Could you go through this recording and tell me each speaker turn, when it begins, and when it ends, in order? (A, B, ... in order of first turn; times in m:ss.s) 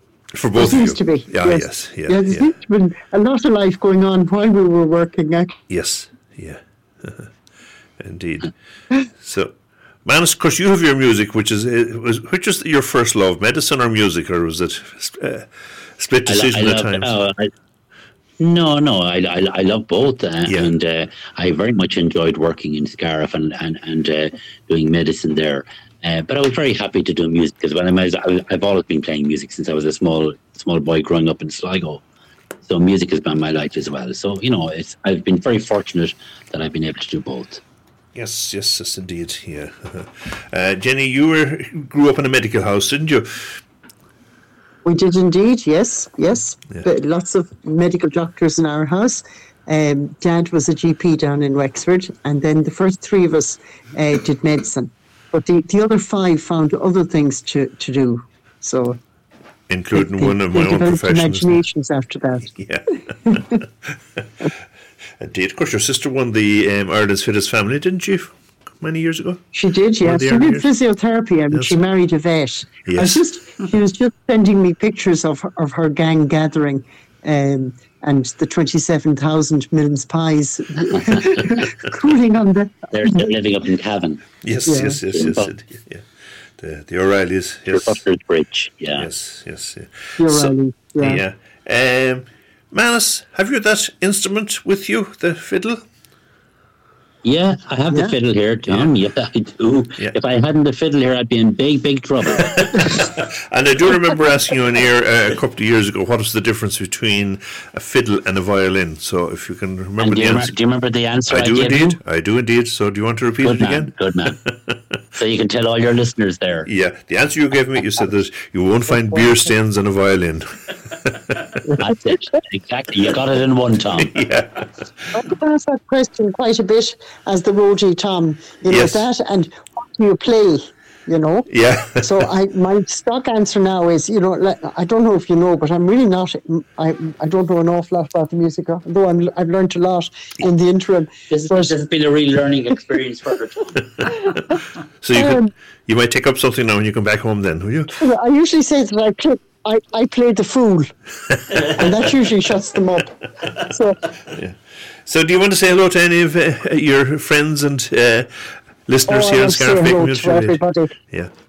0:00.3-0:02.5 A
0:00.6-0:05.6 B
0:05.7-0:07.3 A
0:08.0-0:08.5 A
0:09.2-0:09.5 A
0:10.0-0:17.2 A
0:16.2-0:17.5 C
0:18.4-0:32.0 C
0:20.4-0:20.7 A
0:32.7-0:37.6 C
0:38.1-0:43.6 A
0:44.8-0:59.0 B
0:59.7-1:01.6 A
0:59.9-1:02.5 B
1:02.5-1:03.7 A
1:05.2-1:09.4 A
1:09.5-1:23.3 B
1:10.0-1:10.7 A
1:12.8-1:13.2 A
1:22.9-1:24.2 C
1:24.4-1:26.0 A
1:24.6-1:25.0 B
1:25.1-1:25.5 C
1:26.6-1:28.0 A
1:27.7-1:29.0 C
1:29.0-1:35.8 A
1:30.2-1:31.2 B
1:37.2-1:42.9 C
1:38.7-1:38.9 A
1:42.3-1:50.5 A
1:50.0-1:52.0 C
1:51.3-1:54.8 A
1:53.4-1:54.4 C
1:55.2-1:56.7 C
1:56.6-2:01.6 A
2:01.8-2:04.2 C
2:04.0-2:05.1 A
2:05.1-2:21.8 B
2:08.7-2:09.1 A
2:11.5-2:12.1 A
2:21.3-2:24.1 C
2:25.0-2:28.0 A
2:25.1-2:25.4 B
2:28.0-2:30.9 B
2:31.6-2:34.0 B
2:34.3-2:41.3 A
2:39.1-2:41.0 B